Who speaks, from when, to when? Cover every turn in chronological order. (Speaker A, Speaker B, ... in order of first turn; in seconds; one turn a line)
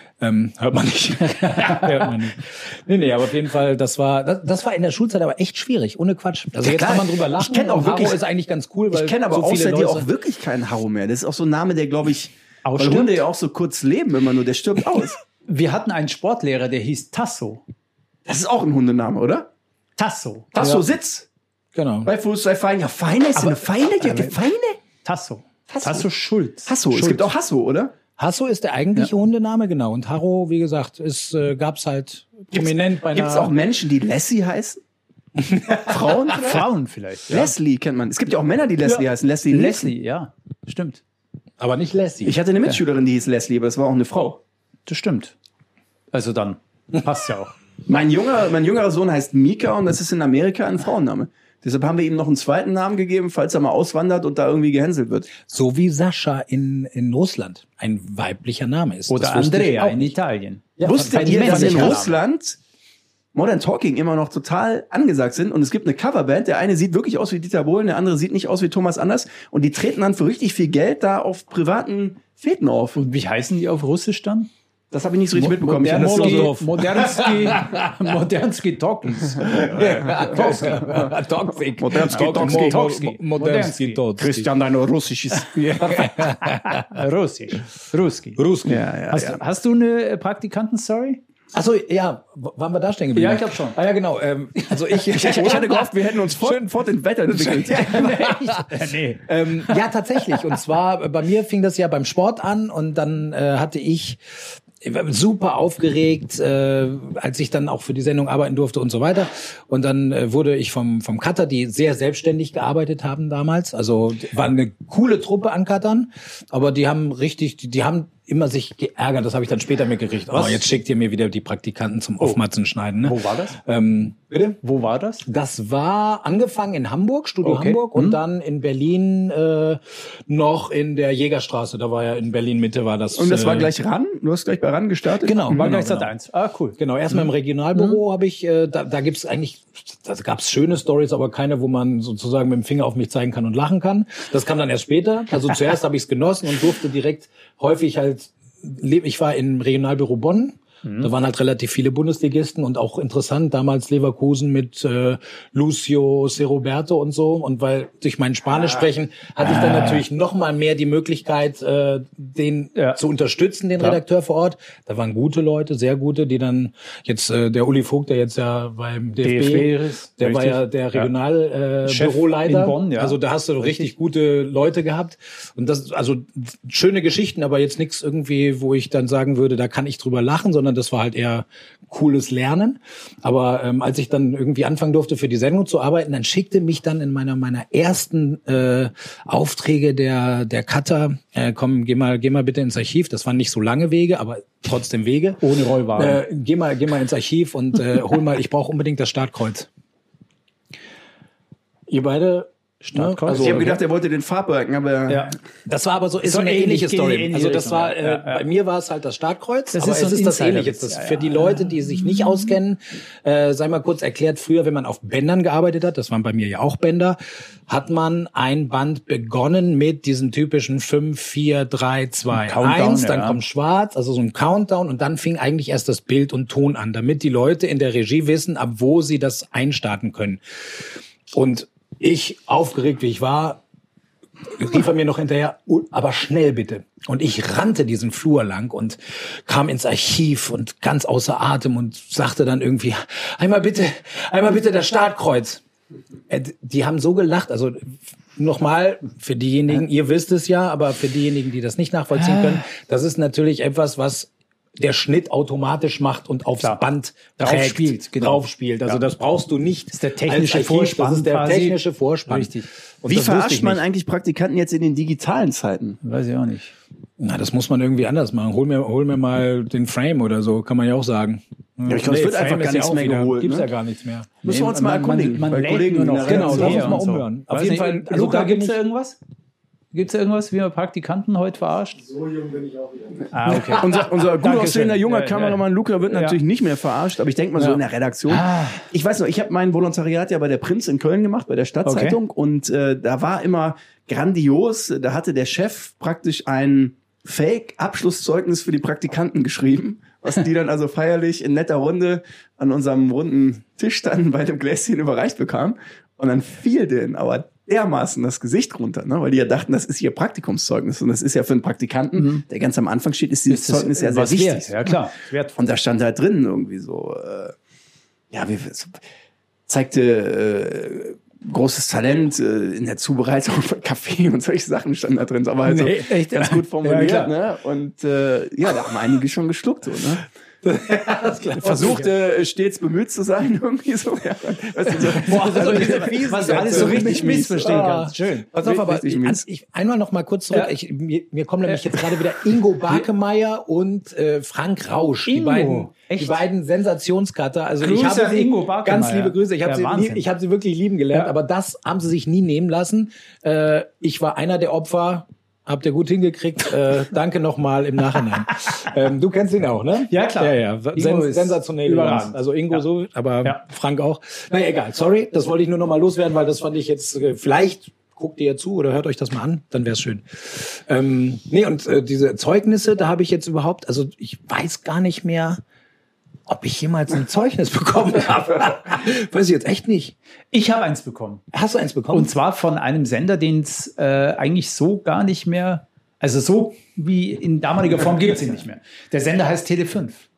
Speaker A: 0.2-10.1
Speaker B: 1.4-2.1
Speaker C: 6.6-8.2
Speaker C: 8.9-15.2
Speaker B: 12.6-13.2
Speaker B: 15.5-17.6
Speaker C: 18.2-19.5
Speaker B: 20.0-20.8
Speaker C: 20.5-21.3
Speaker A: 21.7-22.1
Speaker C: 22.0-24.8
Speaker B: 23.4-24.4
Speaker B: 25.0-27.3
Speaker C: 25.7-26.1
Speaker C: 26.6-27.9
Speaker A: 28.2-33.5
Speaker C: 32.5-34.8
Speaker A: 35.4-36.2
Speaker C: 35.8-36.6
Speaker B: 36.3-37.5
Speaker C: 37.3-39.9
Speaker B: 38.8-41.0
Speaker A: 41.6-42.4
Speaker C: 42.2-44.4
Speaker B: 44.9-45.3
Speaker B: 46.1-47.5
Speaker C: 47.9-55.3
Speaker A: 55.4-60.1
Speaker B: 59.1-62.2
Speaker A: 60.8-62.0
Speaker C: 60.8-62.6
Speaker C: 63.3-73.0
Speaker B: 73.0-74.5
Speaker C: 74.9-76.6
Speaker B: 75.4-80.5
Speaker A: 75.7-77.9
Speaker A: 79.4-84.5
Speaker C: 79.5-82.8
Speaker B: 82.1-84.0
Speaker C: 84.2-86.1
Speaker A: 85.8-86.8
Speaker B: 86.0-88.4
Speaker A: 88.4-88.8
Speaker C: 88.7-89.4
Speaker B: 89.1-91.2
Speaker A: 91.5-96.7
Speaker B: 93.1-93.8
Speaker C: 95.1-98.1
Speaker A: 97.3-104.2
Speaker B: 97.7-100.5
Speaker A: 104.8-124.6
Speaker B: 120.3-120.6
Speaker B: 123.0-123.6
Speaker B: 124.6-125.2
Speaker A: 125.2-133.7
Speaker B: 127.4-128.2
Speaker C: 133.1-135.6
Speaker A: 135.2-136.1
Speaker B: 135.5-138.0
Speaker A: 136.8-199.7
Speaker B: 150.8-151.1
Speaker B: 159.5-160.0
Speaker B: 169.2-171.1
Speaker B: 171.8-173.9
Speaker B: 195.4-196.2
Speaker A: 201.9-203.8
Speaker B: 202.8-203.8
Speaker C: 203.3-205.3
Speaker B: 205.1-205.3
Speaker A: 205.7-217.2
Speaker B: 206.2-208.4
Speaker B: 209.7-211.7
Speaker A: 217.7-233.6
Speaker B: 222.3-223.4
Speaker A: 234.5-245.6
Speaker A: 246.3-263.8
Speaker B: 252.1-252.6
Speaker B: 257.4-259.0
Speaker B: 259.9-262.7
Speaker C: 263.0-266.0
Speaker B: 266.0-266.7
Speaker A: 267.2-274.3
Speaker C: 271.9-273.7
Speaker C: 274.4-277.0
Speaker B: 274.4-279.2
Speaker A: 276.2-278.8
Speaker B: 279.9-282.0
Speaker A: 282.1-283.8
Speaker B: 283.3-286.4
Speaker C: 283.7-314.9
Speaker B: 288.3-288.8
Speaker B: 291.8-292.2
Speaker B: 312.2-312.4
Speaker B: 313.5-315.6
Speaker C: 315.6-317.5
Speaker C: 318.3-319.0
Speaker C: 319.7-330.2
Speaker A: 325.6-326.1
Speaker B: 326.0-327.3
Speaker A: 330.6-332.1
Speaker C: 331.6-337.8
Speaker A: 335.1-375.6
Speaker B: 335.2-338.5
Speaker C: 338.6-339.4
Speaker B: 341.7-342.2
Speaker B: 345.2-346.4
Speaker B: 347.8-350.2
Speaker B: 360.1-362.8
Speaker A: 376.5-380.1
Speaker B: 380.5-381.4
Speaker A: 381.5-382.3
Speaker B: 382.1-390.2